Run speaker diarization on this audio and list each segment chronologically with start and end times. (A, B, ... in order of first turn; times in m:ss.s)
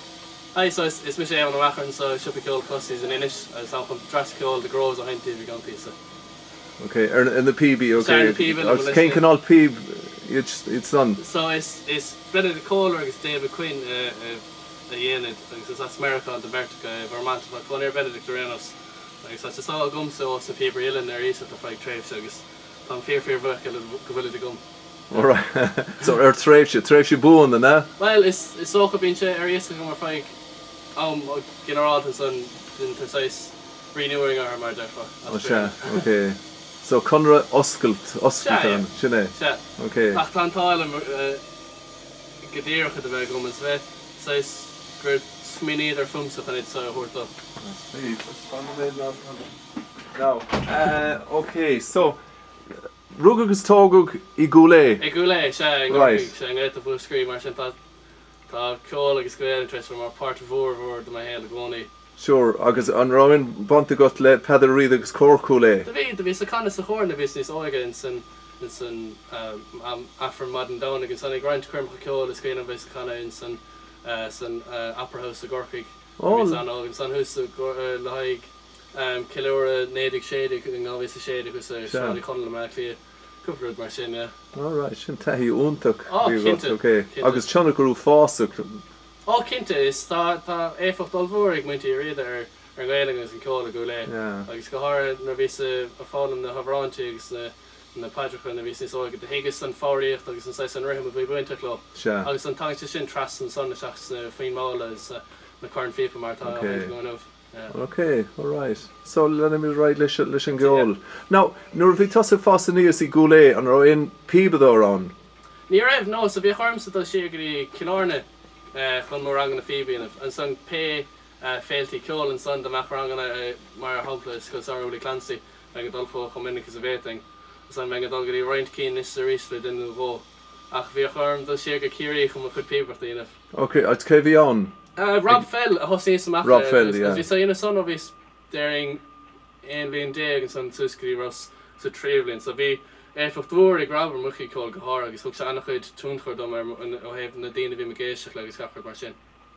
0:00.5-0:05.9 A
0:06.8-0:11.2 B
0:08.0-0:09.2 A
0:11.2-0:24.6 A
0:25.1-0:27.9 B
0:28.0-0:30.3 A
0:31.0-0:36.1 A
0:35.3-0:40.2 B
0:38.4-0:41.4 A
0:42.4-0:47.3 A
0:47.6-0:49.5 B
0:50.1-0:52.2 B
0:53.1-0:55.0 B
0:55.0-0:57.8 A
0:55.9-0:56.3 B
0:58.5-1:01.9 A
1:02.2-1:05.9 B
1:05.9-1:24.3 A
1:16.2-1:16.6 B
1:21.9-1:22.2 B
1:24.6-1:28.8 B
1:26.1-1:27.4 A
1:29.3-1:47.7 A
1:34.1-1:34.5 B
1:42.0-1:42.3 B
1:46.4-1:47.0 B
1:47.7-1:55.1 B
1:50.5-1:50.9 A
1:55.7-2:13.3 A
2:13.5-2:14.7 B
2:15.0-2:19.0 A
2:16.4-2:17.3 B
2:19.6-2:29.2 A